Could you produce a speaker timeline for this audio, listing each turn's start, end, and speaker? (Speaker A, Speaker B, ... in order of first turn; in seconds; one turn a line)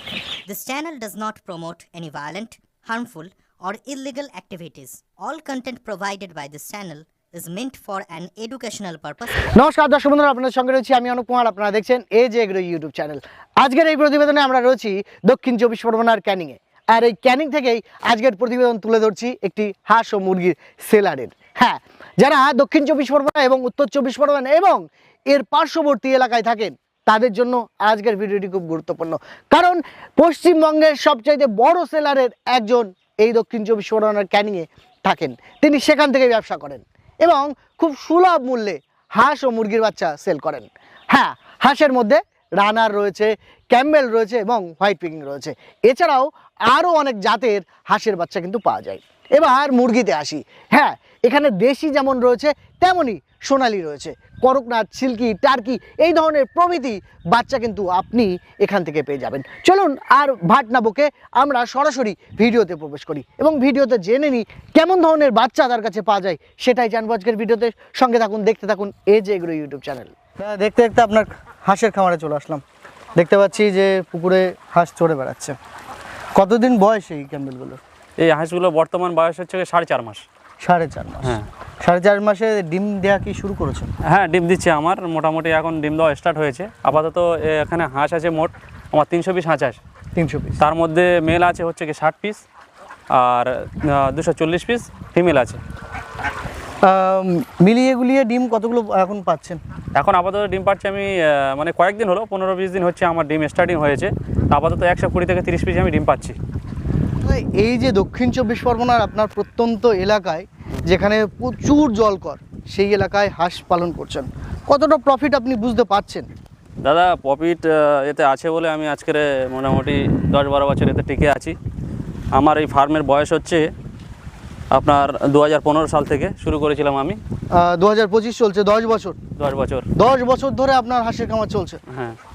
Speaker A: 0.5-9.5
Speaker B: 9.4-72.6
Speaker B: 73.2-75.5
Speaker B: 76.3-77.8
Speaker C: 78.2-80.2
Speaker B: 80.6-83.9
Speaker C: 84.0-89.8
Speaker B: 90.1-90.6
Speaker C: 90.6-92.4
Speaker C: 93.1-95.6
Speaker B: 96.8-99.6
Speaker C: 99.9-106.4
Speaker B: 107.2-116.3
Speaker C: 116.8-121.5
Speaker C: 122.3-123.7
Speaker C: 124.7-127.2
Speaker B: 127.5-129.2
Speaker C: 129.4-129.9
Speaker B: 129.9-131.8
Speaker C: 131.9-132.2